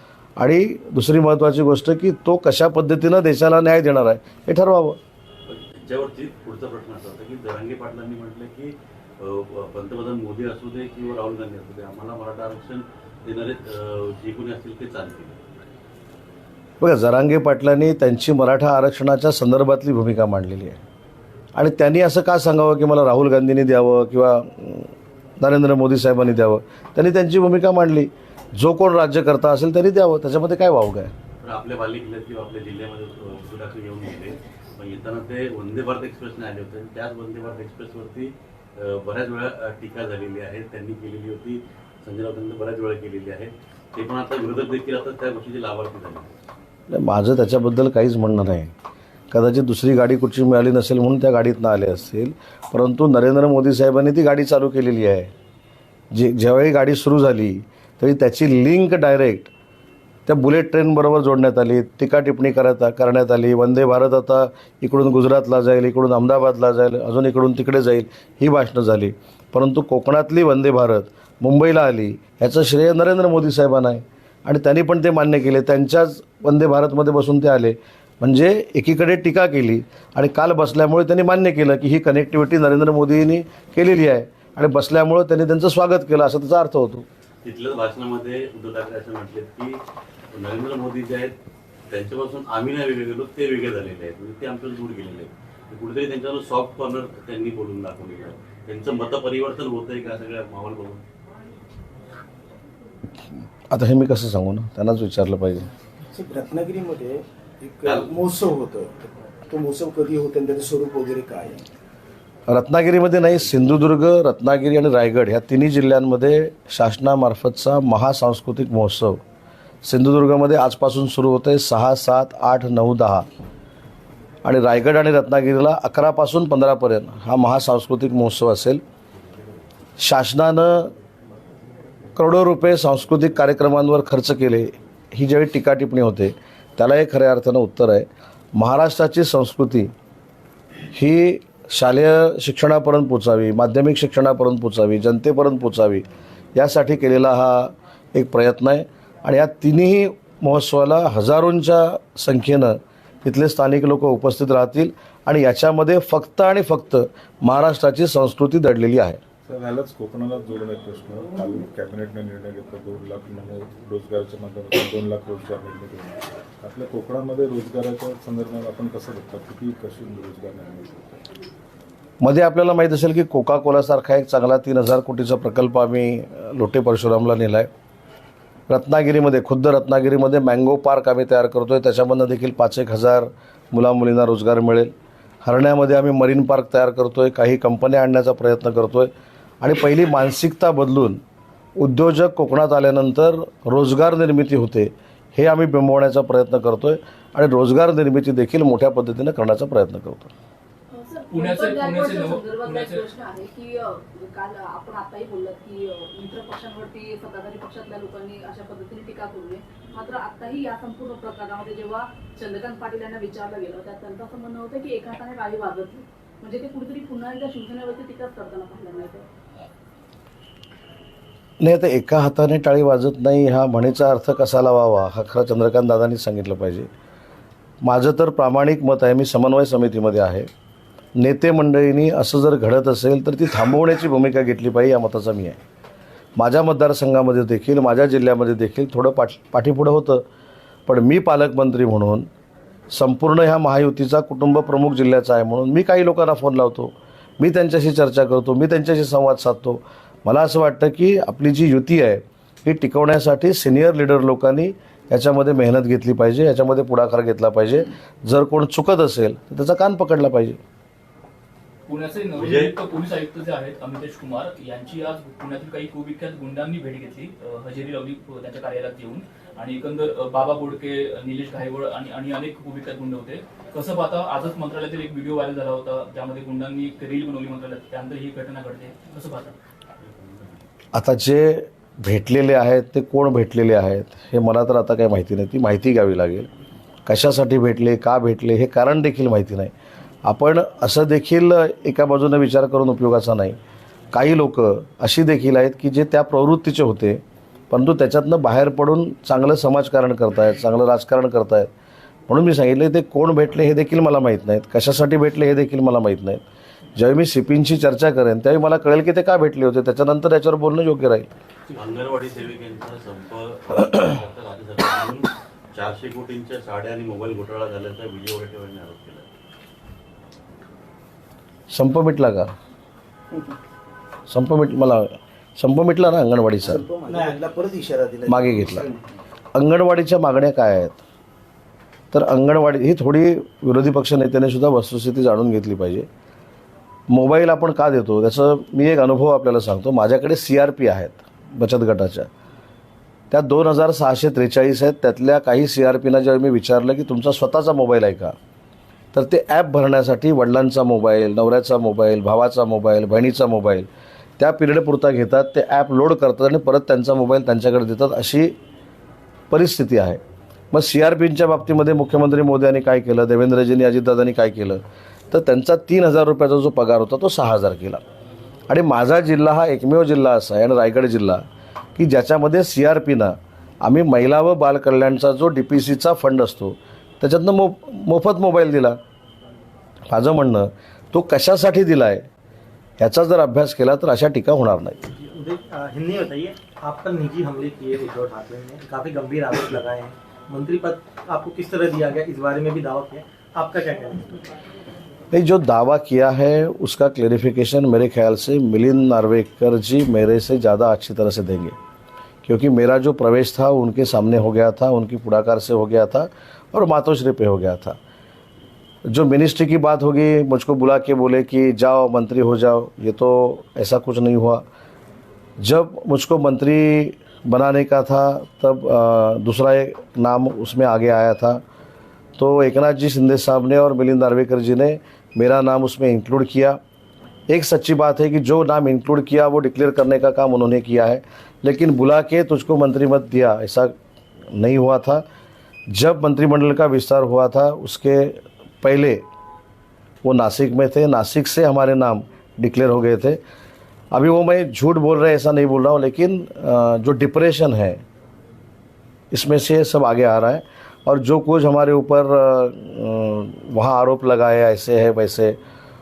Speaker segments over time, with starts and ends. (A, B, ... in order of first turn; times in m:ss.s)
0:00.4-0:05.0 A
0:05.5-0:15.4 B
0:16.8-0:20.8 A
0:21.6-0:31.1 A
0:31.4-0:46.3 B
0:46.9-0:48.7 A
0:49.3-0:55.3 A
0:56.1-0:59.5 A
1:00.3-1:27.1 A
1:27.4-1:29.8 B
1:30.3-1:31.3 B
1:31.9-1:41.0 B
1:43.7-1:45.7 A
1:46.1-1:51.6 C
1:47.8-1:48.1 B
1:52.5-1:59.2 A
1:59.8-2:03.3 A
2:04.4-2:08.8 A
2:10.0-2:10.9 A
2:12.2-2:19.9 A
2:20.9-2:39.2 A
2:39.5-2:51.2 D
2:52.2-2:57.7 A
2:58.7-3:04.9 A
3:05.4-3:09.1 A
3:09.6-3:11.2 A
3:11.8-3:20.3 A
3:20.9-3:39.2 E
3:21.3-3:23.0 F
3:41.6-3:46.9 A
3:47.8-3:50.5 A
3:51.2-3:55.6 A
3:56.4-4:00.2 A
4:00.9-4:02.3 A
4:02.9-4:20.6 A
4:21.9-4:39.6 F
4:22.4-4:22.7 B
4:40.0-4:40.5 B
4:40.9-4:46.5 A
4:47.1-4:49.7 A
4:50.2-4:53.6 A
4:54.1-5:01.7 A
5:02.3-5:06.4 A
5:07.0-5:11.3 A
5:11.7-5:19.2 B
5:21.7-5:22.5 A
5:24.3-5:26.8 A
5:26.6-5:29.0 C
5:27.1-5:27.4 G
5:28.3-5:28.9 A
5:29.6-5:31.0 A
5:32.1-5:36.1 A
5:37.1-5:42.3 A
5:43.3-5:48.4 A
5:49.1-5:53.9 A
5:54.4-5:58.6 A
5:59.5-6:00.2 A
6:00.7-6:08.0 A
6:08.7-6:11.4 A
6:12.0-6:19.0 A
6:20.1-6:22.3 A
6:23.0-6:25.0 A
6:25.1-6:34.5 G
6:35.3-6:41.8 A
6:42.4-6:48.0 A
6:49.1-6:54.6 A
6:55.6-7:01.6 A
7:02.4-7:06.8 A
7:07.5-7:14.0 A
7:14.5-7:15.2 A
7:15.9-7:19.2 A
7:20.2-7:23.4 A
7:24.1-7:28.0 A
7:29.3-7:35.6 A